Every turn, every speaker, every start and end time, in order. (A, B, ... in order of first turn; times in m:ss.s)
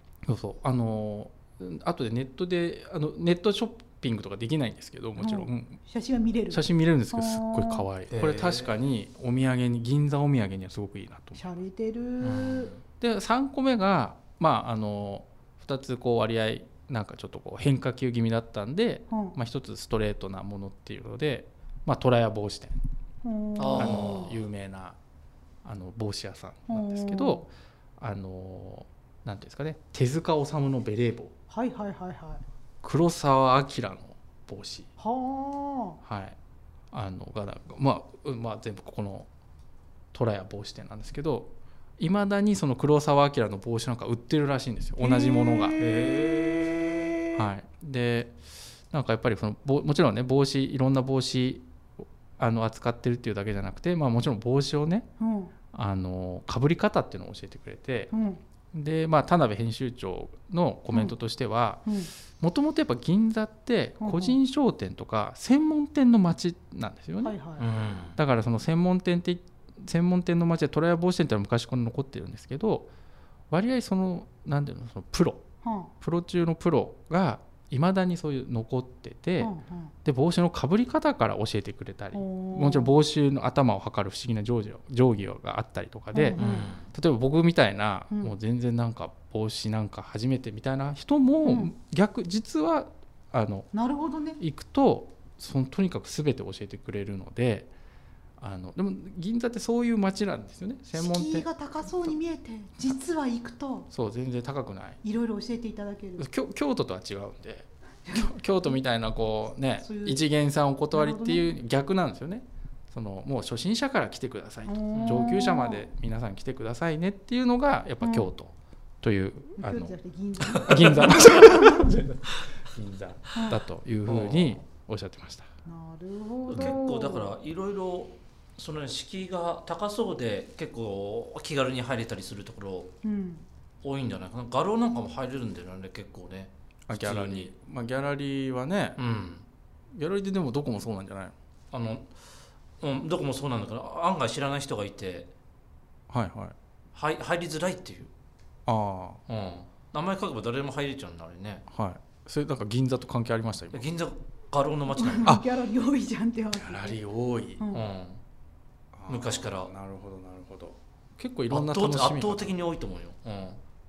0:00.2-0:05.8 A
0:05.2-0:07.9 B
0:06.5-0:11.5 A
0:08.1-0:08.8 C
0:11.3-0:12.7 B
0:12.2-0:12.8 C
0:13.0-0:22.8 A
0:19.1-0:19.4 B
0:23.2-0:24.3 B
0:23.6-0:24.4 C
0:23.8-0:25.0 A
0:25.6-0:31.3 A
0:26.7-0:27.4 B
0:31.5-0:32.4 B
0:32.8-0:34.9 A
0:35.0-0:36.0 B
0:36.0-0:36.4 A
0:36.9-0:39.3 A
0:40.1-0:45.7 A
0:45.0-0:47.0 B
0:45.8-0:47.1 C
0:47.3-0:48.4 A
0:48.9-0:51.6 A
0:52.4-0:55.1 A
0:55.2-0:55.5 B
0:55.7-0:58.1 A
0:58.1-0:58.4 B
0:58.7-1:07.4 A
1:01.9-1:02.1 B
1:04.0-1:04.4 B
1:07.2-1:07.6 B
1:07.6-1:08.2 C
1:08.2-1:12.9 A
1:13.5-1:15.4 A
1:15.6-1:15.9 B
1:16.0-1:19.5 A
1:19.4-1:19.9 B
1:20.0-1:33.7 A
1:22.1-1:22.9 B
1:26.1-1:26.7 B
1:26.4-1:26.9 C
1:31.4-1:31.7 B
1:33.7-1:34.4 B
1:34.4-1:37.7 A
1:38.4-1:41.5 A
1:40.9-1:43.9 B
1:43.9-1:45.0 A
1:45.0-1:46.3 B
1:46.2-2:05.5 A
1:48.1-1:48.3 B
1:49.8-1:50.2 B
1:50.9-1:51.5 B
1:54.6-1:55.8 B
1:54.9-1:55.3 C
1:58.0-1:58.3 B
1:59.6-2:01.9 B
2:03.3-2:03.6 B
2:04.0-2:04.6 C
2:05.6-2:07.3 B
2:06.5-2:12.9 C
2:13.0-2:13.4 B
2:13.8-2:17.5 C
2:16.9-2:19.0 A
2:19.0-2:19.4 C
2:19.9-2:21.3 A
2:21.7-2:22.1 C
2:22.8-2:25.3 C
2:26.1-2:26.6 A
2:26.9-2:28.1 C
2:28.6-2:29.2 A
2:29.3-2:31.6 C
2:31.7-2:33.9 A
2:33.7-2:35.4 C
2:34.9-2:37.0 B
2:36.5-2:37.6 A
2:37.6-2:37.8 B
2:37.7-2:38.2 C
2:38.9-2:42.5 A
2:39.1-2:39.7 C
2:41.5-2:43.6 C